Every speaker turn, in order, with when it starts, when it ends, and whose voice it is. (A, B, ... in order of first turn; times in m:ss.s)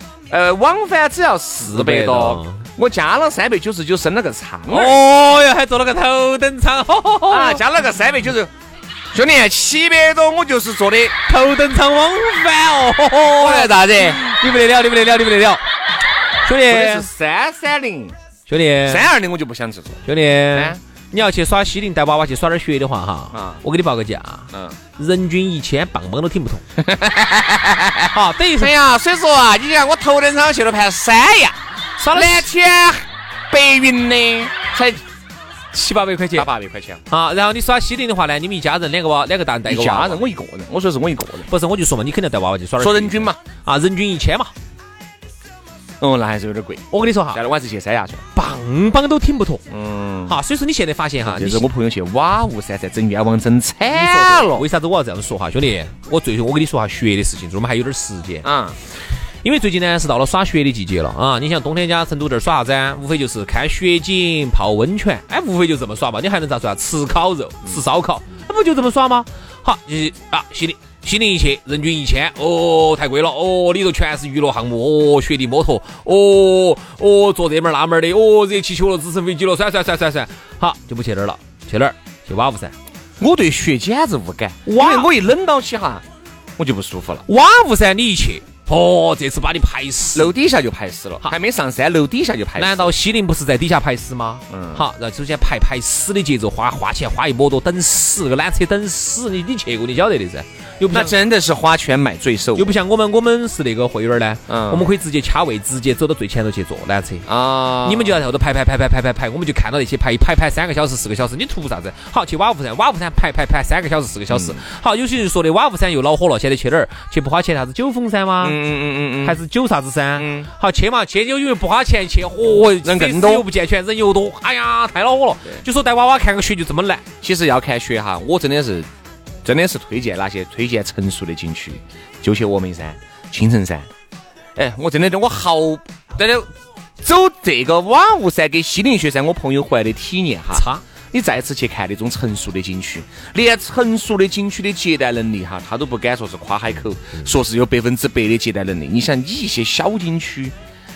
0:00.3-0:05.0 A
0:01.7-0:02.6 B
0:04.7-0:07.6 B
0:07.3-0:08.5 A
0:09.1-0:11.2 A
0:11.3-0:15.6 B
0:13.3-0:14.2 A
0:16.4-0:17.1 B
0:16.6-0:18.2 A
0:18.5-0:19.1 B
0:18.8-0:20.8 A
0:20.1-0:26.6 B
0:23.3-0:23.6 A
0:24.5-0:24.8 A
0:26.8-0:31.6 A
0:28.1-0:28.7 B
0:32.0-0:32.5 B
0:32.1-0:35.0 A
0:35.7-0:36.5 B
0:36.3-0:37.0 A
0:37.1-0:40.3 B
0:39.7-0:41.5 A
0:41.5-0:44.5 B
0:42.8-0:43.4 A
0:46.0-0:48.2 A
0:46.9-0:47.4 B
0:48.4-0:49.6 B
0:49.7-0:50.4 A
0:50.3-0:51.6 B
0:51.2-0:54.6 A
0:53.9-0:58.5 B
0:58.4-0:58.8 A
0:59.4-1:22.7 B
1:23.2-1:26.0 A
1:24.7-1:25.1 B
1:26.6-1:27.2 A
1:27.3-1:30.3 B
1:30.2-1:32.9 A
1:32.6-1:41.1 B
1:34.5-1:34.8 A
1:40.9-1:42.8 A
1:42.6-1:47.3 B
1:44.5-1:44.9 A
1:47.3-1:48.2 A
1:47.8-1:58.6 B
1:54.3-1:54.6 A
1:58.4-1:59.4 A
1:59.2-2:07.0 B
2:00.2-2:00.5 A
2:02.8-2:03.5 A
2:07.2-2:08.9 A
2:09.4-2:13.9 A
2:14.6-2:16.5 A
2:17.0-2:30.6 A
2:20.5-2:20.8 B